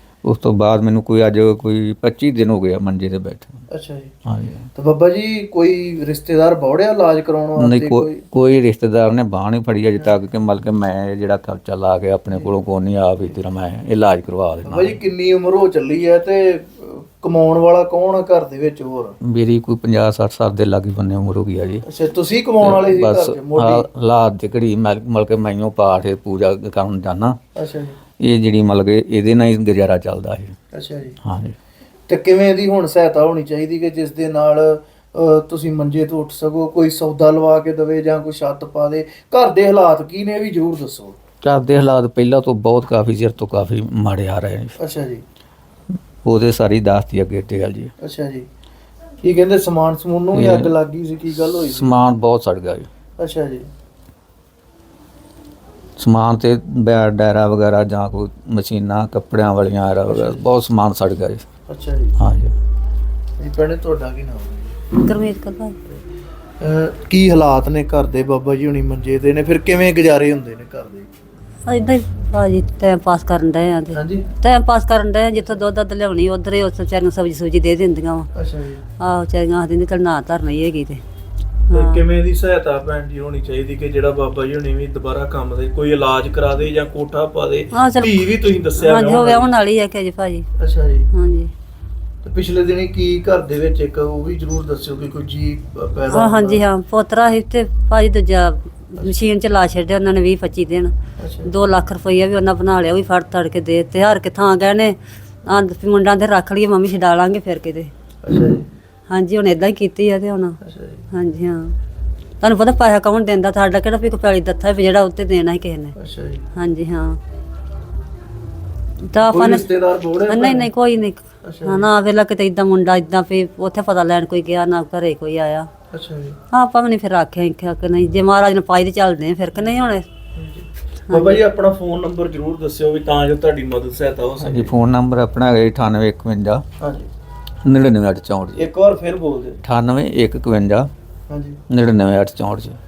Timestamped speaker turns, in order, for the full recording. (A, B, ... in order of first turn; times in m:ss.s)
0:00.2-0:03.6 A
0:03.7-0:04.1 B
0:04.3-0:04.7 A
0:04.8-0:08.2 B
0:07.6-0:15.0 A
0:14.6-0:19.2 B
0:19.2-0:21.8 A
0:21.9-0:23.9 B
0:22.6-0:27.4 A
0:27.6-0:28.0 B
0:28.2-0:30.6 A
0:30.7-0:31.2 B
0:31.2-0:31.6 A
0:32.1-0:41.2 B
0:41.4-0:44.8 A
0:44.8-0:45.2 B
0:46.2-0:47.9 A
0:48.0-0:48.5 B
0:49.2-0:52.0 B
0:50.3-0:50.7 A
0:51.6-0:52.9 A
0:53.2-0:53.7 B
0:56.0-1:01.4 A
1:00.1-1:00.4 B
1:01.7-1:02.2 B
1:02.2-1:02.5 A
1:03.4-1:04.7 B
1:05.0-1:05.8 C
1:06.6-1:11.1 B
1:11.7-1:18.3 C
1:13.9-1:14.3 B
1:18.4-1:18.8 B
1:19.0-1:21.0 C
1:21.7-1:22.0 C
1:21.7-1:29.5 B
1:27.7-1:28.2 C
1:28.8-1:30.5 C
1:30.6-1:31.1 B
1:31.1-1:31.5 C
1:32.2-1:36.6 B
1:36.1-1:40.9 C
1:41.2-1:41.5 B
1:41.4-1:47.9 C
1:48.2-1:48.7 B
1:49.1-1:50.6 C
1:50.6-1:51.1 B
1:51.1-1:51.8 C
1:52.4-1:56.0 C
1:56.0-1:56.5 B
1:56.6-1:57.2 C
1:59.1-1:59.7 C
1:59.2-2:00.7 B
2:00.3-2:05.7 C
2:01.4-2:01.9 B
2:05.9-2:06.4 B
2:06.5-2:10.0 C
2:10.4-2:14.8 B
2:11.1-2:11.4 C
2:14.4-2:16.6 A
2:16.8-2:17.1 B
2:17.6-2:18.6 A
2:18.6-2:19.6 B
2:19.6-2:20.9 A
2:21.3-2:21.6 B
2:21.7-2:22.8 A